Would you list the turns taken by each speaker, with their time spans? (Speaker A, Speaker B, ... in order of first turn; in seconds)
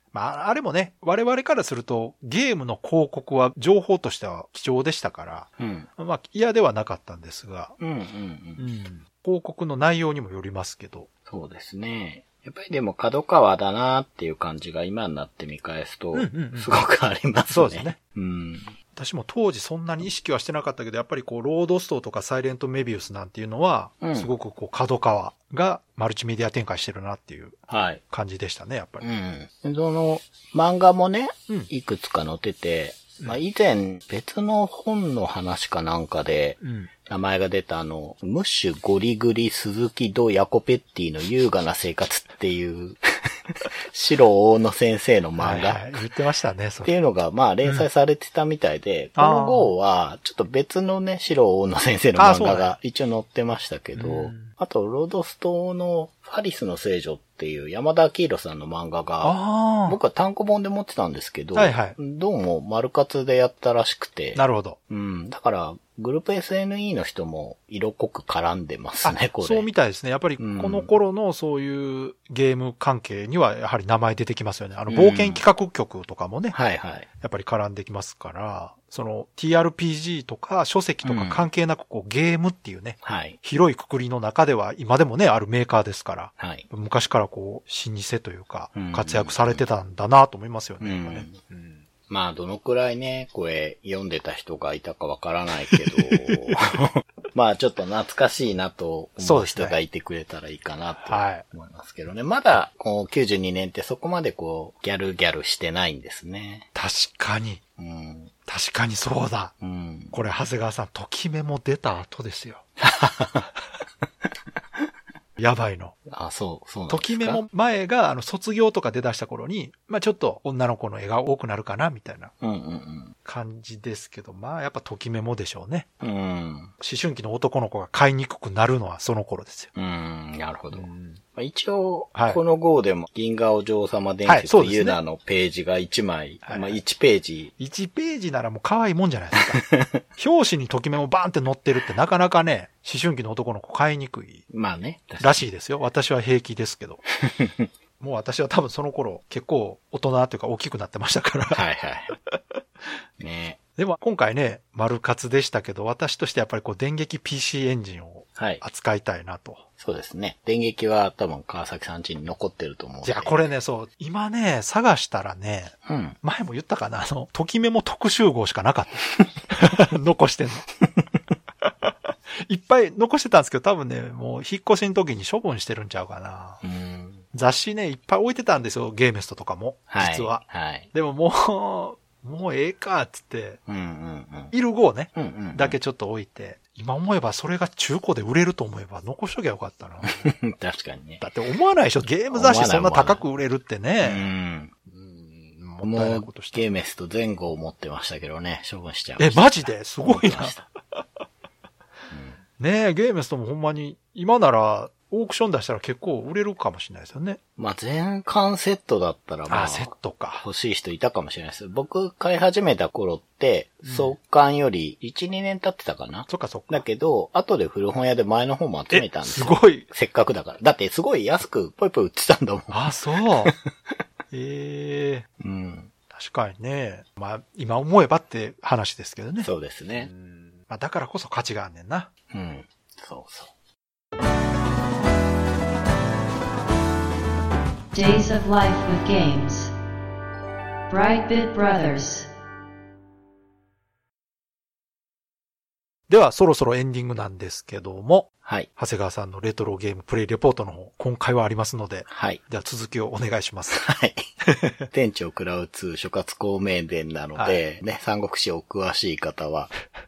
Speaker A: 0.1-7.8, 8.6-11.1, 16.1-16.7, 17.5-18.0, 18.9-29.0, 36.6-36.9, 45.4-46.9, 49.2-49.7, 52.2-52.8, 54.0-54.5, 59.2-60.0, 61.5-62.0, 64.3-64.8, 69.0-76.6, 77.2-91.8, 95.9-96.4, 99.2-99.8, 101.1-101.4, 106.7-107.6, 108.5-109.5, 110.1-112.6, 115.4-115.9, 116.9-122.3, 123.2-125.9, 126.8-129.7, 130.7-131.2, 132.2-132.4, 134.2-135.0, 136.4-136.8, 137.6-144.4, 145.2-147.0, 148.0-151.6, 153.8-159.6, 163.0-170.7, 171.6-176.6, 177.3-183.6, 184.5-190.3, 191.2-194.3, 195.6-196.6, 199.2-200.6, 202.6-207.4, 209.5-210.4, 213.9-214.1, 216.3-216.8, 218.9-219.9, 222.7-223.5, 224.3-225.3, 226.1-229.5, 230.1-232.1, 246.1-253.8, 254.4-254.8, 257.4-257.6
Speaker B: 5.6-5.9, 7.8-8.6, 11.3-18.7, 24.0-24.3, 27.7-28.0, 29.0-46.0, 46.8-69.7, 70.4-70.9, 74.9-75.4, 76.5-77.1, 81.0-81.5, 83.0-83.4, 86.4-86.7, 88.7-89.6, 90.8-91.4, 92.1-106.7, 107.8-108.3, 109.6-110.2, 112.8-113.5, 116.1-117.4, 122.4-123.1, 126.0-126.7, 129.7-137.5, 139.3-140.0, 144.5-145.4, 147.2-147.7, 151.5-152.2, 153.2-153.6, 158.3-158.6, 159.8-163.4, 165.8-166.2, 176.6-177.2, 179.9-180.9, 183.7-184.5, 185.1-185.8, 190.0-191.2, 192.3-193.2, 194.0-200.7, 202.1-202.4, 207.6-223.7, 225.4-225.9, 229.4-230.1, 232.3-233.5, 248.4-248.7, 252.1-252.4, 253.7-254.2, 254.9-259.7
Speaker C: 237.9-239.7, 240.9-242.3